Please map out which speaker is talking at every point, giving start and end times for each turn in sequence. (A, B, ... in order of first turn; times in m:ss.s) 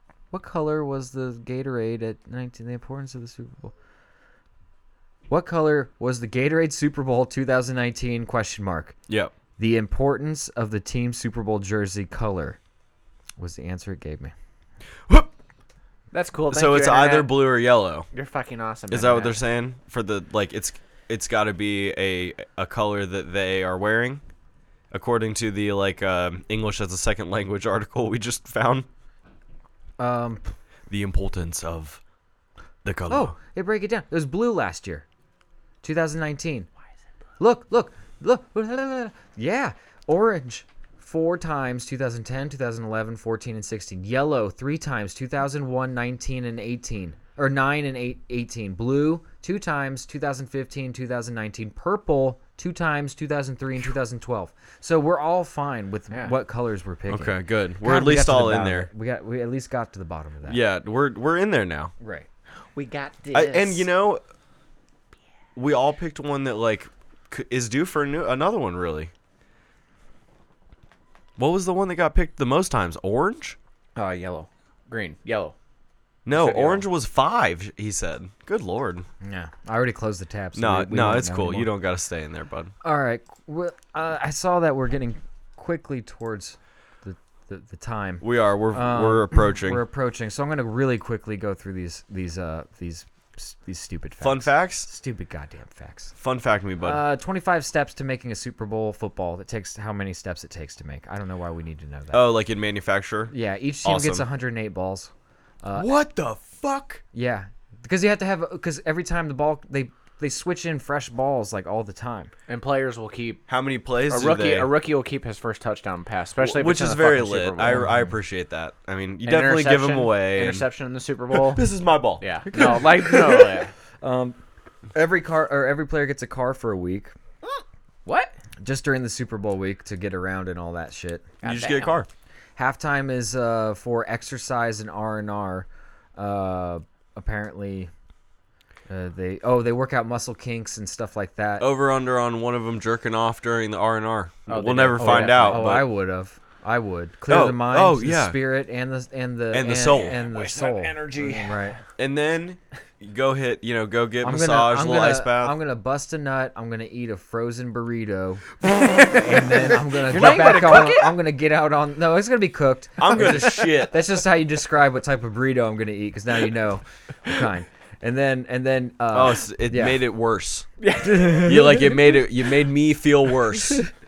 0:00.3-0:03.7 A
0:05.3-0:09.0 A
0:09.1-0:09.3 B
0:09.6-0:12.6 A
0:13.4-0:14.3 A
0:16.1-0:17.3 C
0:16.5-0:18.1 B
0:18.1-0:19.4 C
0:18.9-0:24.2 B
0:24.9-0:28.9 B
0:30.0-0:30.5 A
0:30.9-0:32.0 B
0:32.8-0:33.3 B
0:33.1-0:35.0 A
0:35.8-0:36.7 A
0:37.4-1:00.6 A
0:57.1-0:58.9 B
1:00.4-1:01.9 B
1:02.0-1:02.3 A
1:02.7-1:03.9 C
1:03.3-1:04.2 B
1:05.6-1:09.1 B
1:11.4-1:13.6 B
1:14.0-1:15.5 C
1:16.2-1:19.0 B
1:16.3-1:16.8 C
1:19.2-1:21.7 A
1:20.5-1:22.7 B
1:22.8-1:36.1 A
1:28.2-1:29.8 B
1:34.2-1:34.9 B
1:36.2-1:37.0 B
1:36.8-1:42.3 A
1:42.1-1:43.3 B
1:43.3-1:45.1 A
1:43.8-1:44.2 B
1:45.6-1:45.9 A
1:45.7-1:47.0 B
1:47.1-1:52.3 A
1:52.5-1:53.4 C
1:53.5-1:54.7 B
1:54.0-1:57.9 C
1:56.4-2:00.6 B
1:57.7-1:58.1 A
1:59.2-2:01.6 C
2:01.3-2:02.8 B
2:02.2-2:03.7 C
2:02.5-2:03.5 A
2:04.0-2:04.4 A
2:04.9-2:07.1 A
2:08.0-2:08.3 C
2:08.6-2:11.3 A
2:11.4-2:12.0 C
2:11.4-2:12.1 B
2:12.6-2:17.9 A
2:18.9-2:21.7 A
2:21.6-2:25.9 B
2:24.5-2:25.8 C
2:25.0-2:31.8 A
2:27.3-2:28.4 B
2:29.5-2:30.2 B
2:29.8-2:31.7 C
2:32.0-2:35.6 B
2:34.2-2:50.0 A
2:38.7-2:41.2 C
2:40.2-2:40.8 B
2:43.0-2:44.0 B
2:43.2-2:43.7 C
2:49.1-2:50.7 B
2:50.8-2:51.7 C
2:51.0-2:51.7 A
2:51.2-2:53.9 B